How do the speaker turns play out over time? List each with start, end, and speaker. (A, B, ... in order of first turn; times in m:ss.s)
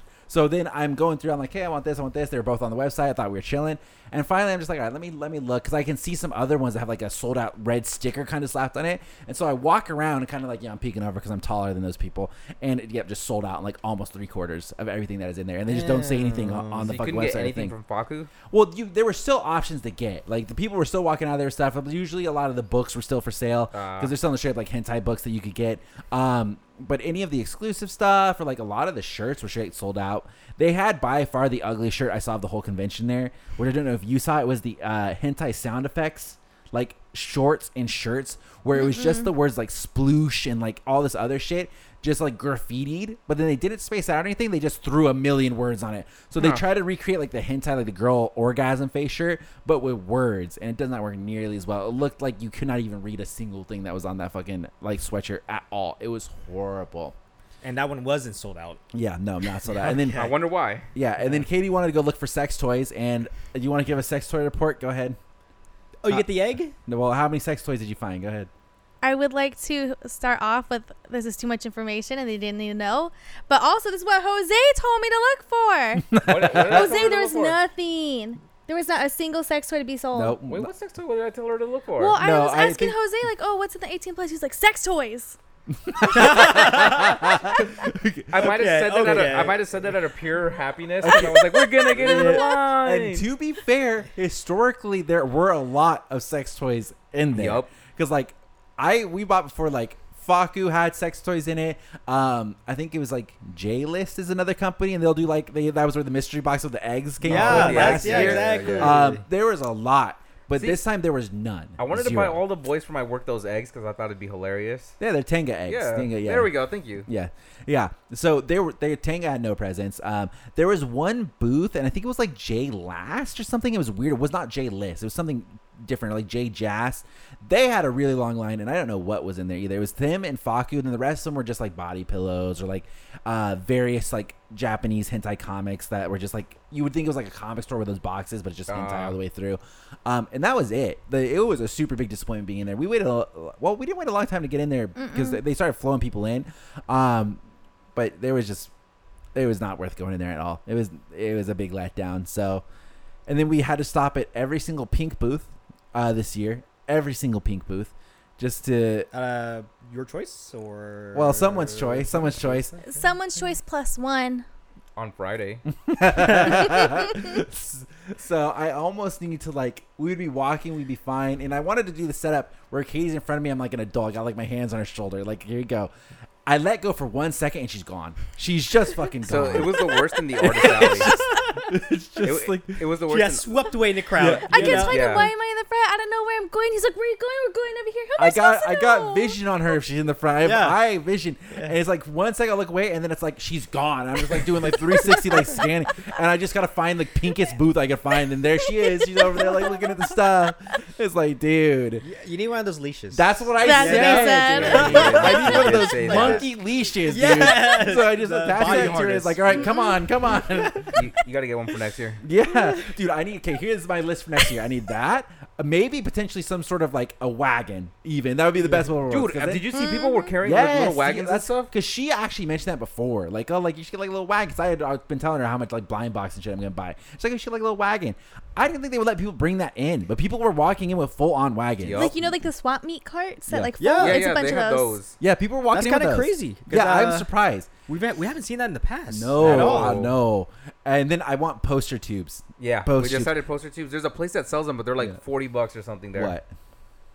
0:00.3-0:17.7 A
0:15.7-0:17.0 B
0:16.8-0:18.3 C
0:18.5-0:57.1 A
0:23.7-0:24.1 C
0:38.8-0:39.3 D
0:46.4-0:46.6 C
0:57.6-0:58.8 B
0:58.9-1:00.4 A
0:59.6-1:00.3 B
1:00.1-1:00.9 C
1:00.9-1:05.2 A
1:01.2-1:01.5 B
1:06.0-1:06.8 B
1:06.1-1:08.5 A
1:09.0-1:20.4 D
1:16.1-1:16.9 A
1:16.2-1:17.6 C
1:20.1-1:20.7 A
1:20.5-1:22.2 C
1:22.0-1:25.4 D
1:22.2-1:23.0 A
1:25.8-1:29.5 A
1:26.1-1:27.3 B
1:28.3-1:33.2 C
1:28.4-1:29.6 B
1:31.0-1:31.4 A
1:31.3-1:32.7 D
1:32.0-1:52.4 A
1:37.3-1:37.7 C
1:47.2-1:49.2 B
1:47.3-1:49.0 C
1:51.8-1:54.9 C
1:55.0-1:56.5 A
1:55.7-1:57.1 C
1:57.0-2:27.4 A
2:18.7-2:19.2 C
2:24.9-2:25.4 D
2:27.9-2:28.7 A
2:29.4-2:32.6 A
2:33.3-2:39.1 A
2:39.1-2:43.1 B
2:41.1-2:42.7 A
2:42.9-2:44.4 D
2:45.0-2:45.6 C
2:45.8-2:55.9 A
2:46.7-2:47.0 D
2:56.4-3:02.8 A
2:59.2-3:01.1 C
2:59.8-3:00.0 D
3:00.8-3:01.7 D
3:02.2-3:03.6 C
3:03.1-3:05.3 B
3:04.2-3:04.9 A
3:04.5-3:09.4 D
3:04.6-3:05.3 C
3:08.2-3:22.1 A
3:10.4-3:10.8 B
3:11.5-3:11.8 B
3:15.1-3:15.5 D
3:18.6-3:19.8 D
3:22.0-3:26.4 B
3:23.1-3:31.0 A
3:23.6-3:26.4 D
3:24.5-3:26.5 C
3:27.0-3:29.7 B
3:29.5-3:30.0 D
3:30.3-3:31.0 B
3:30.9-3:32.2 C
3:32.2-3:39.7 A
3:38.6-3:38.9 B
3:39.1-3:41.7 C
3:39.7-3:40.4 D
3:40.4-3:52.3 A
3:51.8-3:52.1 C
3:51.9-3:55.0 D
3:53.8-3:54.2 B
3:54.0-3:55.1 C
3:55.2-3:57.7 A
3:55.7-3:57.3 B
3:57.9-4:00.0 B
3:59.1-4:03.3 A
3:59.4-4:00.2 C
4:02.6-4:06.4 C
4:06.1-4:06.5 A